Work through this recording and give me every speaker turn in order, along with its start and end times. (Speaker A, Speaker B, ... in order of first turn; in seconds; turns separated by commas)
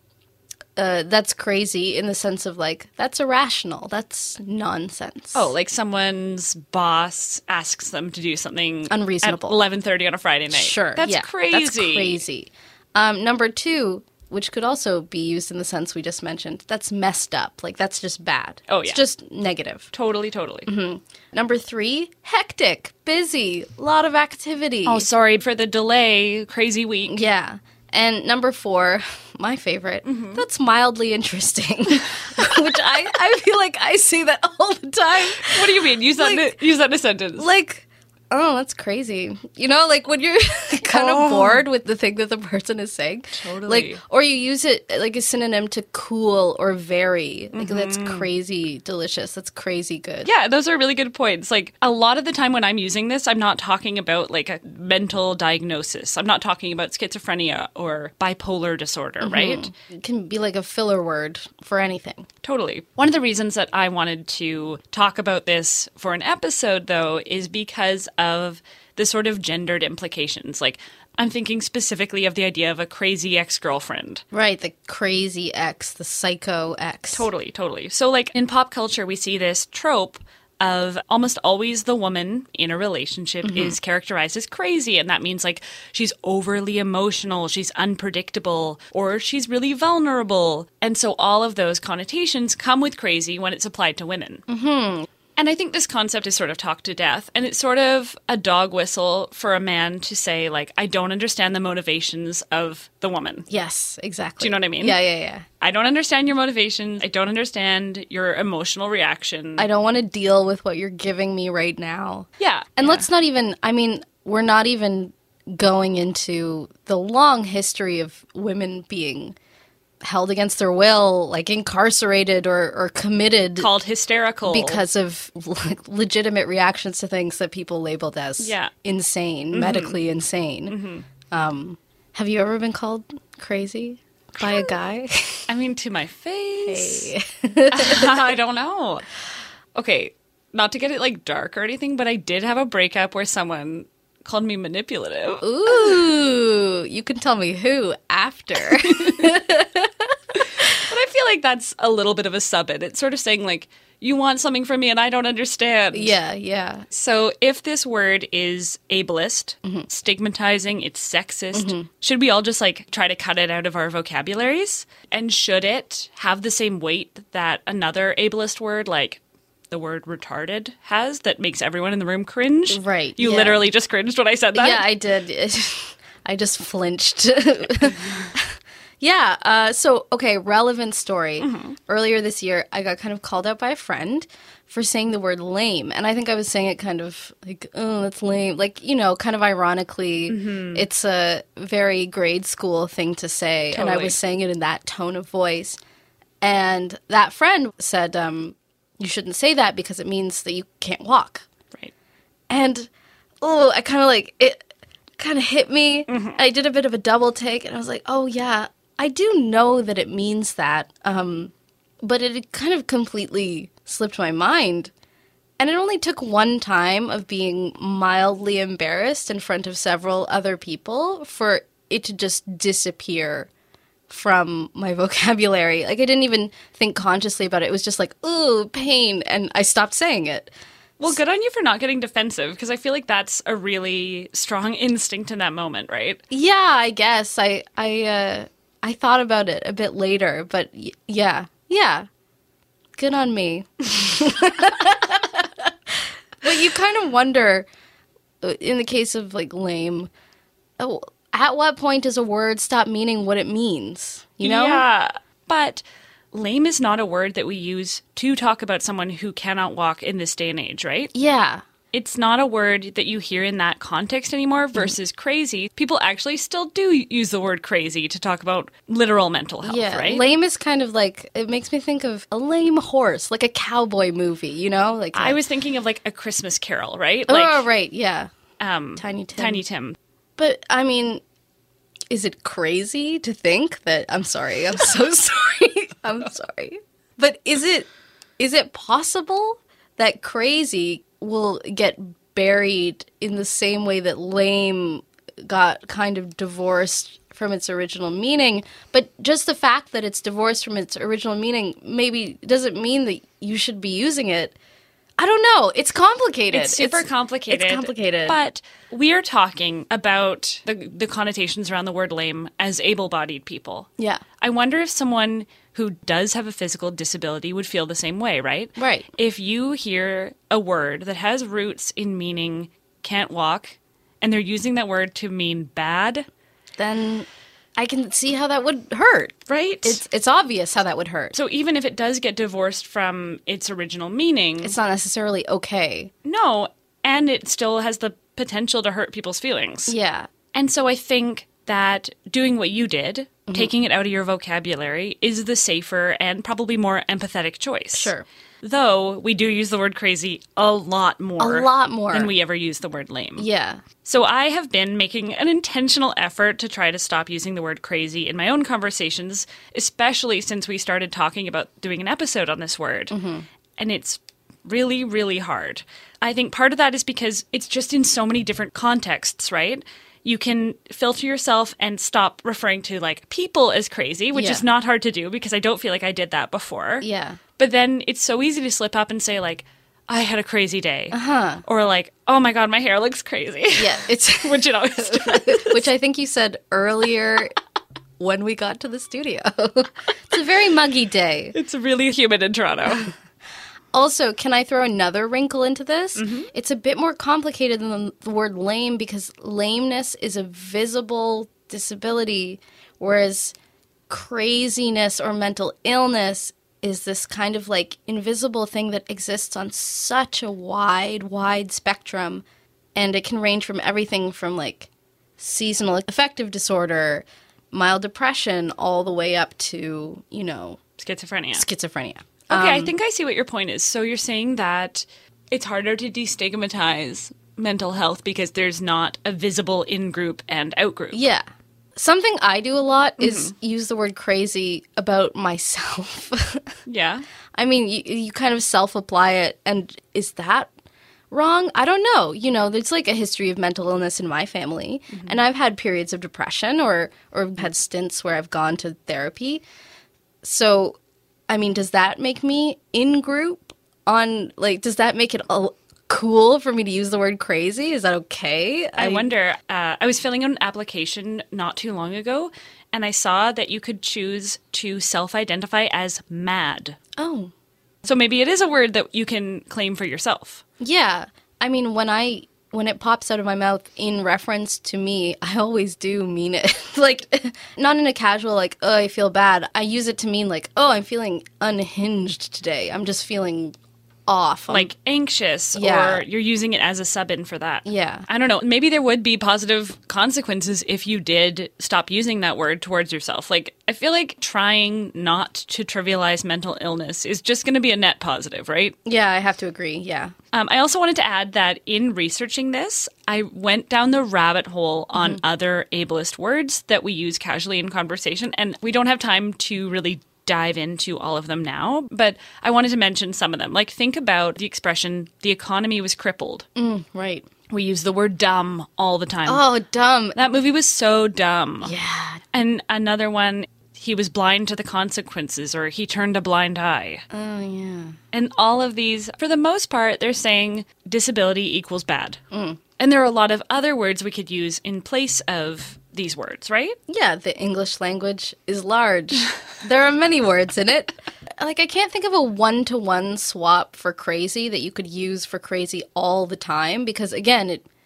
Speaker A: 0.8-5.5, Speaker B: 5.3-12.2, Speaker A: 8.9-9.6, Speaker A: 10.5-19.9, Speaker B: 18.7-19.0, Speaker B: 19.9-20.7, Speaker A: 20.7-25.1, Speaker B: 24.9-27.3, Speaker A: 27.1-36.5, Speaker B: 30.1-30.4, Speaker B: 35.4-37.5, Speaker A: 37.4-50.3, Speaker B: 40.9-41.6, Speaker B: 43.4-44.0, Speaker B: 47.5-48.3, Speaker B: 50.2-59.7, Speaker A: 59.2-62.3, Speaker B: 62.4-74.2, Speaker A: 74.3-77.3, Speaker B: 77.1-94.4, Speaker A: 83.4-83.8, Speaker A: 94.5-95.1, Speaker B: 95.3-103.5, Speaker A: 103.5-105.4, Speaker B: 104.4-105.0, Speaker B: 105.6-109.7, Speaker A: 109.6-119.3, Speaker B: 112.4-113.0, Speaker A: 120.0-123.7, Speaker B: 123.6-124.8, Speaker A: 124.5-130.8, Speaker B: 128.4-128.7, Speaker B: 129.5-130.0, Speaker B: 130.7-131.0, Speaker A: 131.3-135.5, Speaker B: 135.5-137.1, Speaker A: 136.7-138.1, Speaker B: 137.7-139.1, Speaker B: 139.7-146.0, Speaker A: 145.4-149.9, Speaker B: 150.8-156.2, Speaker A: 155.9-156.8, Speaker B: 156.9-174.9, Speaker A: 161.5-161.9, Speaker A: 172.7-173.7, Speaker A: 174.5-195.8, Speaker B: 181.4-181.8, Speaker B: 190.3-190.8, Speaker B: 193.7-194.2, Speaker A: 196.4-201.5, Speaker A: 202.5-202.9, Speaker A: 203.4-204.6, Speaker A: 205.2-214.9, Speaker B: 206.1-206.4, Speaker A: 215.6-223.5, Speaker A: 224.1-230.5, Speaker B: 231.0-236.2, Speaker A: 236.3-242.1, Speaker A: 243.0-245.5, Speaker A: 246.4-247.7, Speaker A: 248.4-250.1, Speaker A: 250.8-254.8, Speaker B: 254.4-261.1, Speaker A: 261.1-261.6, Speaker B: 261.9-270.2, Speaker A: 269.6-275.4, Speaker B: 275.1-277.7, Speaker A: 277.3-278.3, Speaker B: 278.6-280.0, Speaker A: 279.0-279.6, Speaker A: 280.4-281.2, Speaker A: 282.1-287.9, Speaker A: 288.4-304.6, Speaker A: 305.2-308.4, Speaker B: 306.5-326.2, Speaker A: 314.0-314.2, Speaker A: 318.8-319.1, Speaker A: 326.8-331.3, Speaker B: 329.5-330.0, Speaker B: 331.3-334.7, Speaker A: 334.6-336.1, Speaker B: 336.2-339.9, Speaker A: 339.9-340.3, Speaker B: 340.5-353.5, Speaker A: 347.9-348.2, Speaker A: 351.4-352.3, Speaker A: 353.4-353.8, Speaker B: 354.0-363.2, Speaker A: 363.1-363.4, Speaker B: 363.8-385.9, Speaker A: 374.3-374.6, Speaker A: 377.0-377.4, Speaker A: 381.1-381.6, Speaker A: 383.7-387.6, Speaker A: 388.2-391.5, Speaker B: 391.5-393.1, Speaker A: 393.9-403.5, Speaker B: 396.2-396.5, Speaker A: 404.1-412.4, Speaker A: 412.9-420.8, Speaker B: 421.0-421.6, Speaker A: 421.5-422.9, Speaker B: 422.5-431.3, Speaker A: 431.1-431.4, Speaker A: 431.9-436.6, Speaker B: 433.2-433.5, Speaker B: 436.9-437.2, Speaker A: 437.5-440.7, Speaker A: 441.3-449.6, Speaker A: 450.4-451.0, Speaker A: 451.5-459.3, Speaker B: 459.0-467.0, Speaker A: 467.2-467.5, Speaker B: 468.0-470.6, Speaker A: 470.8-483.7, Speaker A: 484.3-484.9, Speaker B: 484.7-498.9, Speaker A: 485.7-486.2, Speaker A: 487.8-488.3, Speaker A: 499.0-500.3, Speaker B: 500.5-516.7, Speaker A: 516.8-517.5, Speaker B: 517.7-519.7, Speaker A: 519.5-520.4, Speaker B: 520.3-521.9, Speaker A: 521.8-522.4, Speaker B: 522.5-527.2, Speaker A: 527.3-528.1, Speaker B: 528.3-532.4, Speaker A: 532.5-532.8, Speaker B: 533.0-537.0, Speaker A: 537.1-547.8